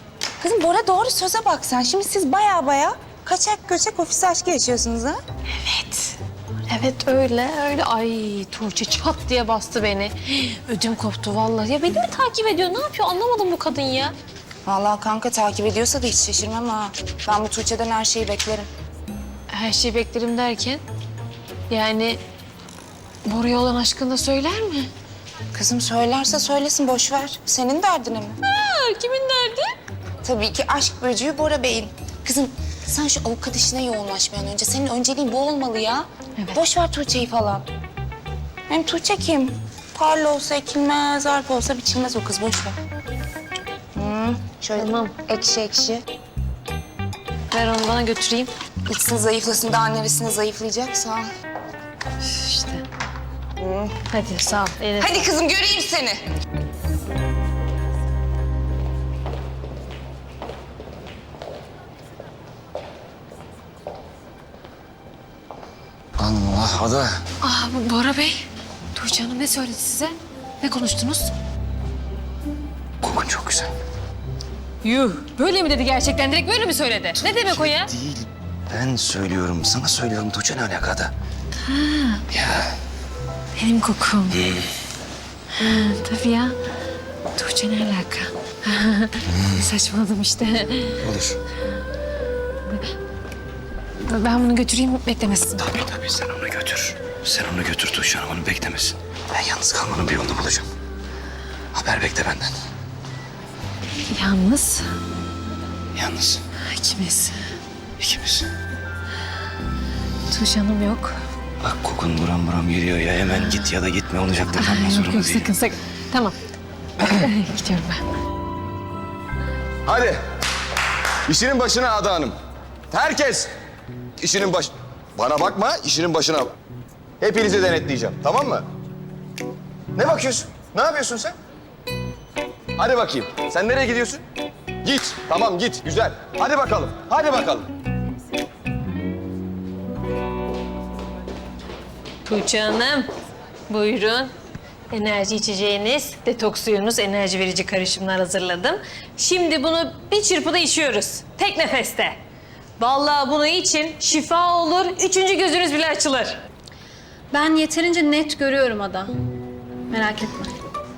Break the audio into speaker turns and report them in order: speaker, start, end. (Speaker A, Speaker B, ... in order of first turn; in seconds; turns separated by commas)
Speaker A: 0.4-5.2, Speaker B: 5.5-6.2, Speaker B: 6.7-14.2, Speaker A: 14.7-18.7, Speaker B: 19.5-20.8, Speaker B: 21.7-22.2, Speaker B: 23.2-24.9, Speaker A: 25.5-28.4, Speaker B: 28.4-29.8, Speaker A: 30.2-37.6, Speaker A: 38.7-42.8, Speaker A: 44.0-46.0, Speaker B: 44.8-45.1, Speaker B: 47.5-48.5, Speaker A: 48.9-51.3, Speaker B: 52.2-52.8, Speaker A: 53.6-53.9, Speaker B: 54.1-55.2, Speaker A: 55.0-56.2, Speaker C: 66.2-67.1, Speaker B: 67.4-71.3, Speaker C: 73.0-73.7, Speaker B: 74.8-77.9, Speaker C: 77.5-81.1, Speaker B: 81.7-82.2, Speaker C: 82.3-82.7, Speaker B: 83.6-84.4, Speaker B: 85.5-86.6, Speaker B: 87.4-91.0, Speaker C: 91.0-91.4, Speaker B: 94.0-95.7, Speaker C: 95.6-100.7, Speaker C: 101.8-102.5, Speaker B: 104.1-104.9, Speaker C: 106.0-106.4, Speaker B: 106.7-107.4, Speaker C: 108.0-108.5, Speaker B: 110.3-111.2, Speaker C: 111.6-115.5, Speaker B: 114.5-116.4, Speaker B: 117.0-118.0, Speaker D: 119.9-120.2, Speaker D: 121.3-122.4, Speaker D: 122.9-123.5, Speaker D: 124.2-126.5, Speaker D: 127.2-128.7, Speaker D: 130.0-131.3, Speaker D: 132.8-134.2, Speaker D: 134.8-137.7, Speaker B: 142.3-143.1, Speaker B: 143.7-144.3, Speaker B: 144.9-152.2, Speaker B: 152.8-156.4, Speaker E: 157.3-159.1, Speaker E: 159.9-160.5